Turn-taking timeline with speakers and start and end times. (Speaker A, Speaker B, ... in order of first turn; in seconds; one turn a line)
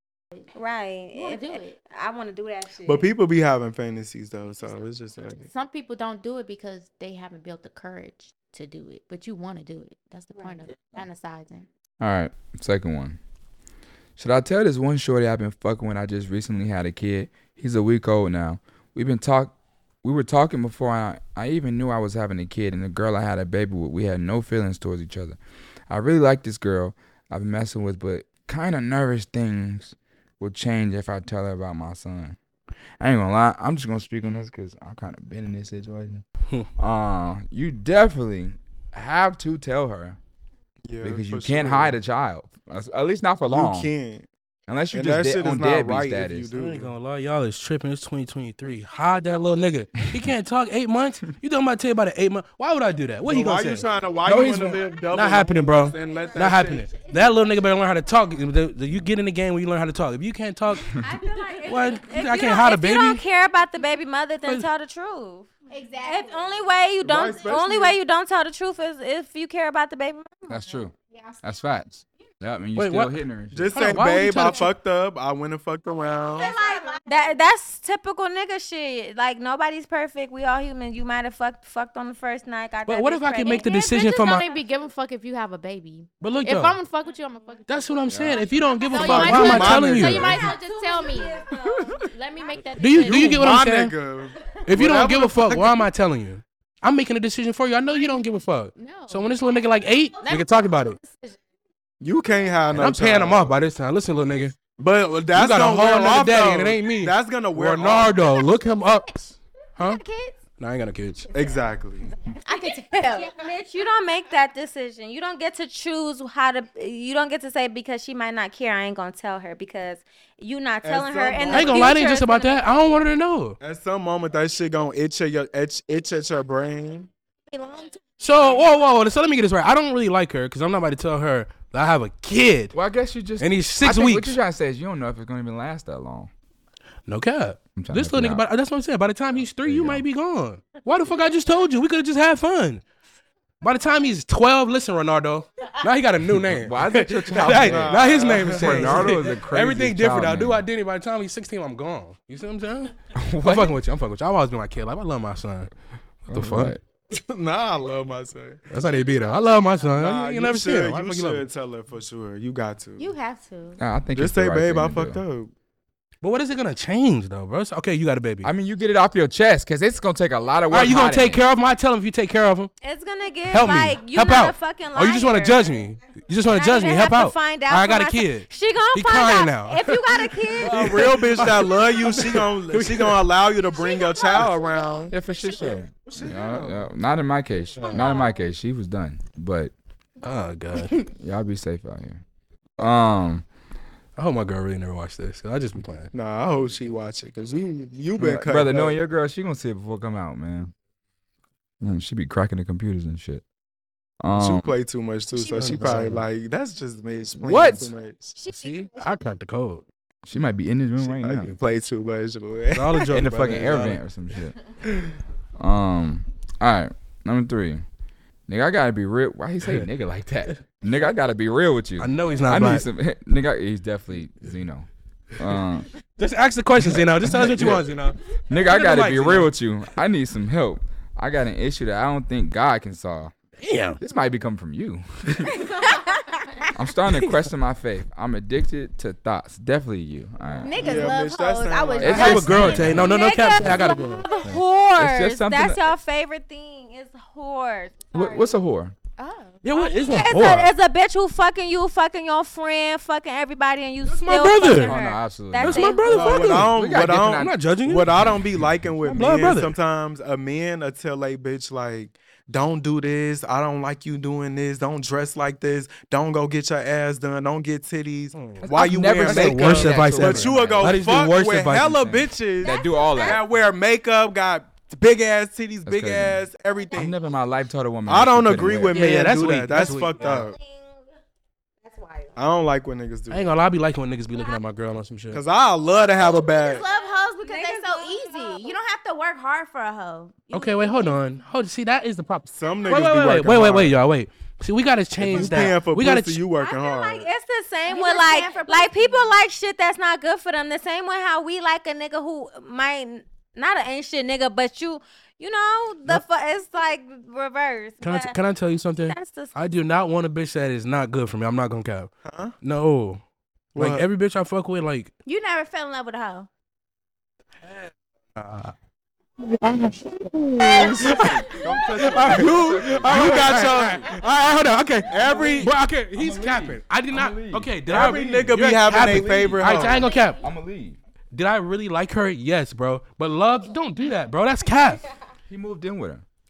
Speaker A: 0.5-3.1
Speaker B: 1.1-1.8
Speaker C: 2.8-5.5
Speaker B: 5.4-11.7
Speaker D: 12.0-13.2
Speaker D: 14.2-32.4
Speaker D: 33.0-36.2
Speaker D: 36.8-40.2
Speaker C: 40.9-42.0
Speaker D: 41.0-43.9
Speaker C: 43.5-44.3
Speaker D: 44.7-46.5
Speaker C: 44.9-46.9
Speaker E: 46.5-53.9
Speaker C: 53.2-56.9
Speaker D: 54.2-54.8
Speaker E: 55.1-60.9
Speaker F: 56.9-57.3
Speaker F: 60.9-62.0
Speaker A: 60.9-65.5
Speaker E: 61.6-63.2
Speaker F: 65.7-66.7
Speaker A: 66.0-70.5
Speaker C: 67.0-68.0
Speaker D: 70.5-73.8
Speaker F: 71.0-71.6
Speaker E: 72.8-73.2
Speaker C: 73.5-76.5
Speaker E: 73.7-74.7
Speaker F: 76.4-77.4
Speaker A: 76.4-84.4
Speaker E: 82.8-84.5
Speaker B: 83.5-87.9
Speaker E: 86.2-86.8
Speaker E: 87.7-90.3
Speaker D: 88.1-88.5
Speaker A: 88.8-92.1
Speaker B: 88.9-91.4
Speaker C: 89.0-90.5
Speaker B: 92.0-93.5
Speaker E: 92.8-93.9
Speaker C: 93.0-95.8
Speaker E: 94.7-101.0
Speaker B: 98.8-99.4
Speaker C: 102.0-103.7
Speaker E: 102.7-104.6
Speaker C: 104.8-108.2
Speaker E: 105.3-110.0
Speaker F: 109.8-110.3
Speaker E: 110.6-111.3
Speaker C: 111.3-112.1
Speaker F: 112.3-113.5
Speaker A: 113.1-122.9
Speaker C: 120.8-122.0
Speaker E: 121.5-123.6
Speaker C: 123.6-127.1
Speaker E: 128.2-132.7
Speaker D: 132.7-136.3
Speaker E: 133.4-134.4
Speaker E: 137.1-142.8
Speaker D: 137.8-138.4
Speaker D: 139.6-140.0
Speaker E: 143.6-155.7
Speaker D: 146.4-150.6
Speaker C: 147.4-149.1
Speaker D: 153.2-153.8
Speaker E: 156.2-156.8
Speaker D: 156.3-156.8
Speaker C: 157.1-158.6
Speaker E: 158.7-161.4
Speaker C: 159.9-163.1
Speaker F: 163.0-163.8
Speaker D: 163.8-165.2
Speaker C: 164.1-165.5
Speaker E: 166.2-168.5
Speaker D: 168.4-171.4
Speaker E: 170.7-172.7
Speaker A: 172.8-175.8
Speaker E: 173.5-183.2
Speaker A: 176.4-181.4
Speaker C: 180.6-185.2
Speaker A: 183.7-184.5
Speaker D: 185.1-189.7
Speaker C: 185.9-186.9
Speaker C: 187.8-188.1
Speaker E: 190.2-191.0
Speaker D: 191.0-192.2
Speaker D: 192.8-193.4
Speaker E: 194.2-196.1
Speaker C: 196.1-198.9
Speaker D: 198.2-200.7
Speaker D: 201.8-203.4
Speaker D: 204.2-204.7
Speaker C: 204.3-208.3
Speaker A: 205.3-205.9
Speaker E: 205.5-206.2
Speaker D: 207.4-207.9
Speaker A: 208.3-209.1
Speaker E: 208.5-209.8
Speaker D: 210.2-211.6
Speaker C: 211.0-213.1
Speaker E: 212.7-214.0
Speaker D: 213.1-214.6
Speaker D: 215.6-217.8
Speaker D: 218.5-225.9
Speaker E: 222.0-222.9
Speaker E: 226.2-229.5
Speaker D: 226.8-227.8
Speaker D: 228.5-233.3
Speaker E: 233.6-234.0
Speaker D: 234.0-235.6
Speaker D: 236.7-241.1
Speaker F: 240.6-243.4
Speaker C: 240.7-243.0
Speaker D: 242.0-243.1
Speaker E: 242.1-244.6
Speaker A: 243.0-248.4
Speaker D: 244.9-245.9
Speaker D: 248.1-248.9
Speaker F: 249.2-250.1
Speaker E: 249.6-250.7
Speaker A: 250.0-256.4
Speaker E: 254.1-255.0
Speaker D: 254.5-257.5
Speaker E: 255.5-258.1
Speaker C: 256.1-277.1
Speaker D: 258.2-258.7
Speaker E: 259.0-259.8
Speaker E: 268.3-268.6
Speaker D: 268.6-271.2
Speaker E: 269.2-272.3
Speaker D: 272.0-273.4
Speaker A: 272.6-273.4
Speaker D: 275.9-276.4
Speaker D: 276.9-279.0
Speaker C: 278.1-280.6
Speaker E: 278.9-280.4
Speaker F: 281.8-282.3
Speaker C: 282.4-283.6
Speaker E: 283.3-285.4
Speaker C: 285.3-286.8
Speaker F: 286.4-291.2
Speaker A: 286.9-288.7
Speaker E: 290.5-296.4
Speaker C: 292.5-294.0
Speaker C: 295.2-297.3
Speaker A: 295.4-295.6
Speaker A: 296.6-308.3
Speaker F: 297.9-299.4
Speaker E: 308.0-312.1
Speaker A: 309.1-309.5
Speaker C: 312.2-312.5
Speaker E: 312.6-313.2
Speaker C: 313.7-314.0
Speaker E: 313.8-315.1
Speaker F: 315.2-316.5
Speaker E: 318.3-318.7
Speaker F: 320.6-321.8
Speaker D: 320.6-323.8
Speaker E: 320.7-321.1
Speaker C: 321.6-324.2
Speaker E: 321.9-330.4
Speaker C: 325.1-325.7
Speaker D: 325.3-328.2
Speaker C: 327.9-330.1
Speaker D: 328.8-331.0
Speaker F: 330.0-330.4
Speaker E: 331.3-335.0
Speaker D: 335.5-336.2